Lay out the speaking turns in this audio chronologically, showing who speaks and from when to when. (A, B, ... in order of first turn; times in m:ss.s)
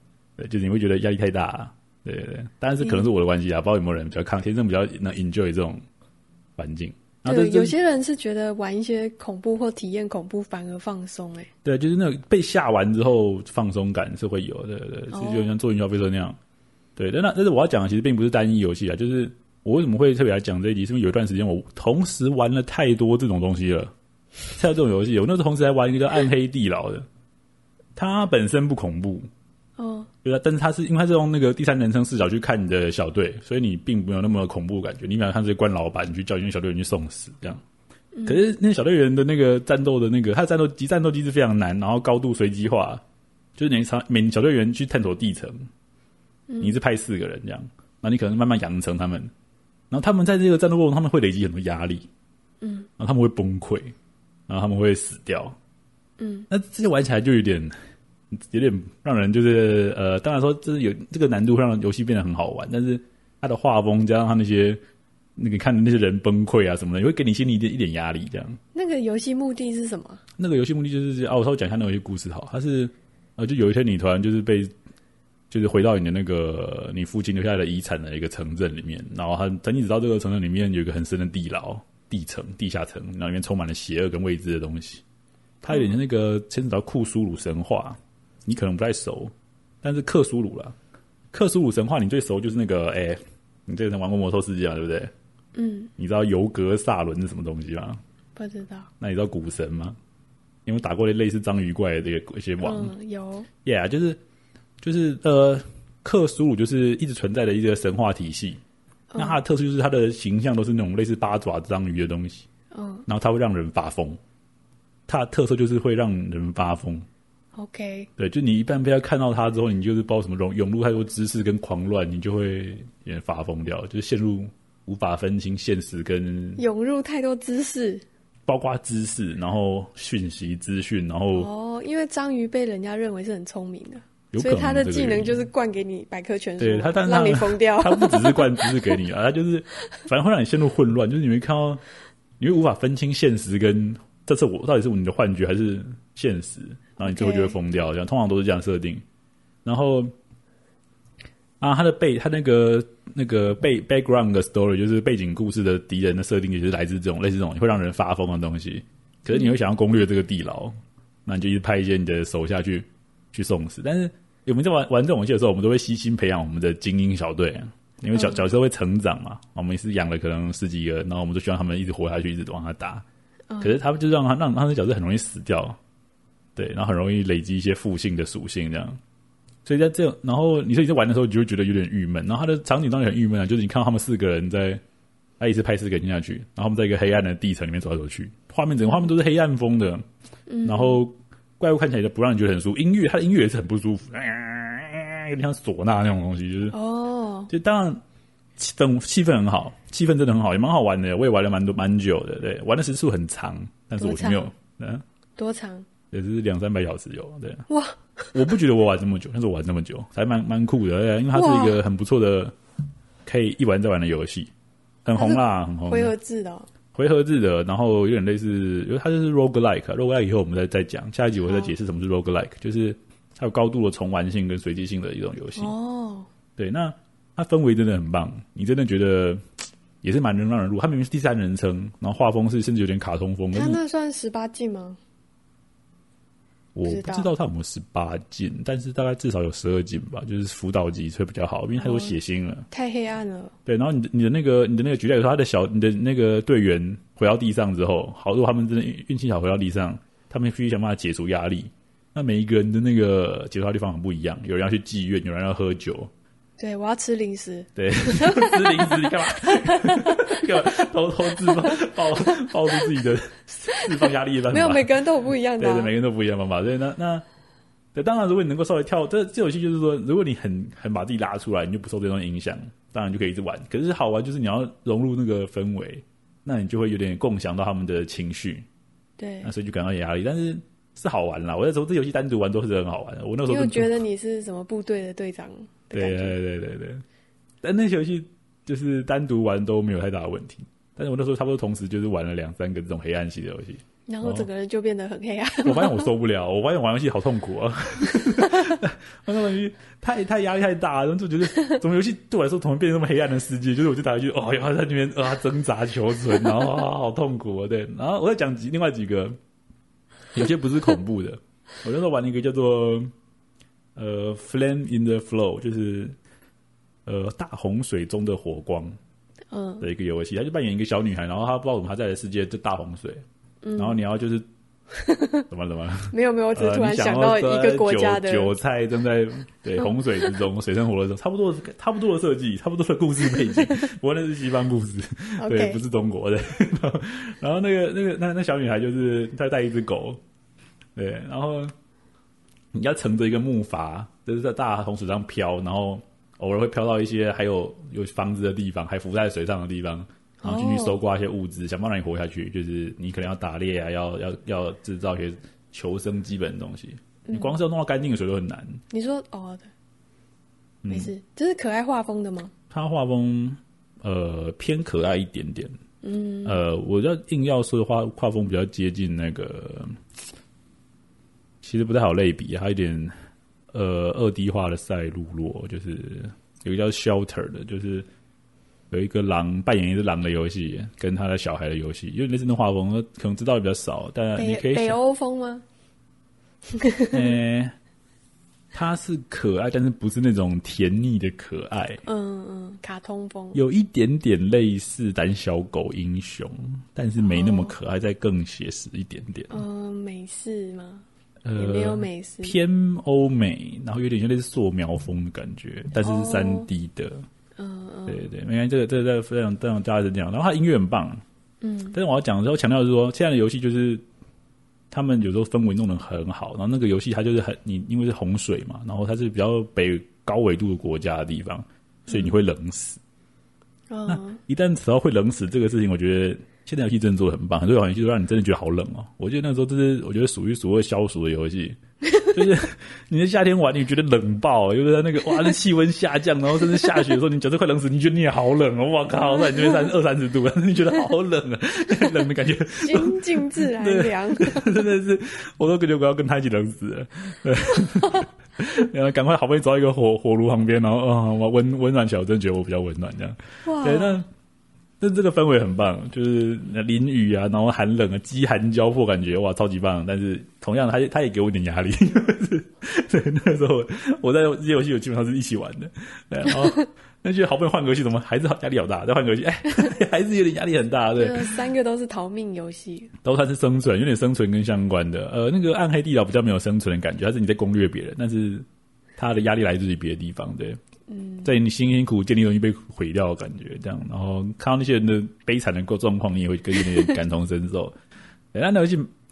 0:00.4-0:05.8 A
0:06.6-0:07.8 A
0:07.3-0:11.5 B
0:11.6-0:16.4 A
0:15.1-0:15.5 B
0:17.0-0:23.9 A
0:24.6-0:27.1 A
0:28.0-0:29.3 A
0:29.8-0:30.1 B
0:30.2-0:37.6 A
0:38.2-0:38.4 B
0:38.3-0:43.0 A
0:43.6-0:45.6 A
0:46.5-0:46.8 B
0:46.6-0:49.3 A
0:49.9-0:52.1 A
0:52.6-0:52.9 B
0:53.0-0:53.9 A
0:54.5-0:55.6 A
0:56.2-0:56.5 B
0:56.5-0:57.8 A
0:58.3-1:04.8 A
1:05.4-1:08.6 A
1:08.7-1:10.2 B
1:10.4-1:14.7 A
1:15.5-1:25.0 A
1:25.6-1:30.8 A
1:25.7-1:26.0 B
1:31.3-1:35.1 A
1:35.6-1:35.9 B
1:36.0-1:38.0 A
1:38.4-1:38.9 B
1:39.0-1:40.0 A
1:40.7-1:42.9 A
1:42.6-1:43.5 B
1:43.6-1:44.2 A
1:44.8-1:48.6 A
1:49.1-1:49.4 B
1:49.2-1:52.5 A
1:52.7-1:53.1 B
1:53.1-1:54.2 A
1:55.1-1:57.1 A
1:57.6-1:58.1 B
1:58.2-2:06.6 A
2:06.6-2:08.0 B
2:08.5-2:11.5 A
2:11.4-2:19.0 B
2:14.3-2:15.4 A
2:16.6-2:21.8 A
2:22.4-2:29.0 A
2:27.0-2:27.6 B
2:29.6-2:30.1 A
2:31.6-2:40.7 A
2:41.3-2:53.0 A
2:48.1-2:48.4 B
2:53.5-2:53.8 B
2:53.6-2:55.8 A
2:56.6-2:59.0 A
2:59.6-3:04.8 A
3:05.4-3:10.0 A
3:10.5-3:11.0 B
3:10.6-3:16.8 A
3:16.7-3:17.5 B
3:17.5-3:18.0 A
3:18.6-3:25.0 A
3:24.0-3:24.5 B
3:25.4-3:25.9 B
3:26.1-3:27.6 A
3:27.7-3:28.4 B
3:28.3-3:32.5 A
3:31.3-3:31.8 B
3:33.3-3:34.5 A
3:35.0-3:36.1 A
3:35.2-3:36.7 B
3:36.9-3:45.7 A
3:41.5-3:41.7 B
3:45.6-3:46.3 B
3:46.6-3:49.4 A
3:50.0-3:53.8 A
3:53.5-3:55.0 B
3:56.8-4:02.7 A
3:56.9-3:57.3 B
4:01.8-4:02.2 B
4:02.7-4:03.6 B
4:03.7-4:16.1 A
4:16.6-4:20.5 B
4:17.8-4:24.9 A
4:21.4-4:21.8 B
4:24.5-4:25.9 B
4:25.6-4:27.2 A
4:28.0-4:38.7 A
4:39.2-4:39.5 B
4:39.4-4:43.9 A
4:43.5-4:46.4 B
4:45.9-4:47.0 A
4:47.6-4:54.5 A
4:54.1-4:56.1 B
4:55.6-5:09.4 A
5:10.3-5:13.1 A
5:14.0-5:16.2 A
5:17.1-5:19.0 A
5:19.5-5:19.9 B
5:19.8-5:23.2 A
5:23.6-5:24.0 B
5:23.8-5:24.5 A
5:24.9-5:25.4 B
5:25.5-5:40.2 A
5:26.1-5:28.5 B
5:29.8-5:30.3 B
5:35.4-5:35.8 B
5:41.0-5:41.7 A
5:42.7-5:58.8 A
5:50.4-5:51.0 B
5:57.3-5:57.6 B
5:58.9-5:59.7 B
6:00.8-6:01.1 A
6:00.9-6:02.5 B
6:02.7-6:05.8 A
6:06.0-6:06.6 B
6:06.4-6:10.0 A
6:11.6-6:13.1 A
6:13.7-6:18.1 A
6:18.9-6:25.0 A
6:24.4-6:25.6 B
6:26.7-6:27.3 B
6:27.1-6:27.7 A
6:28.7-6:32.0 A
6:32.1-6:33.6 B
6:33.5-6:39.6 A
6:37.2-6:37.8 B
6:39.5-6:41.0 B
6:41.4-6:47.2 A
6:41.6-6:42.6 B
6:46.0-6:46.7 B
6:47.6-6:48.3 B
6:48.1-6:51.2 A
6:51.6-6:52.0 B
6:51.9-6:54.0 A
6:54.9-7:03.0 A
7:02.1-7:02.4 B
7:03.9-7:04.4 B
7:04.1-7:11.8 A
7:12.3-7:34.3 A
7:19.6-7:19.9 B
7:22.8-7:24.7 B
7:33.6-7:34.2 B
7:35.0-7:51.5 A
7:51.2-7:53.1 B
7:53.2-7:58.7 A
7:59.2-8:00.8 A
8:01.1-8:01.5 B
8:01.4-8:07.9 A
8:08.5-8:09.1 A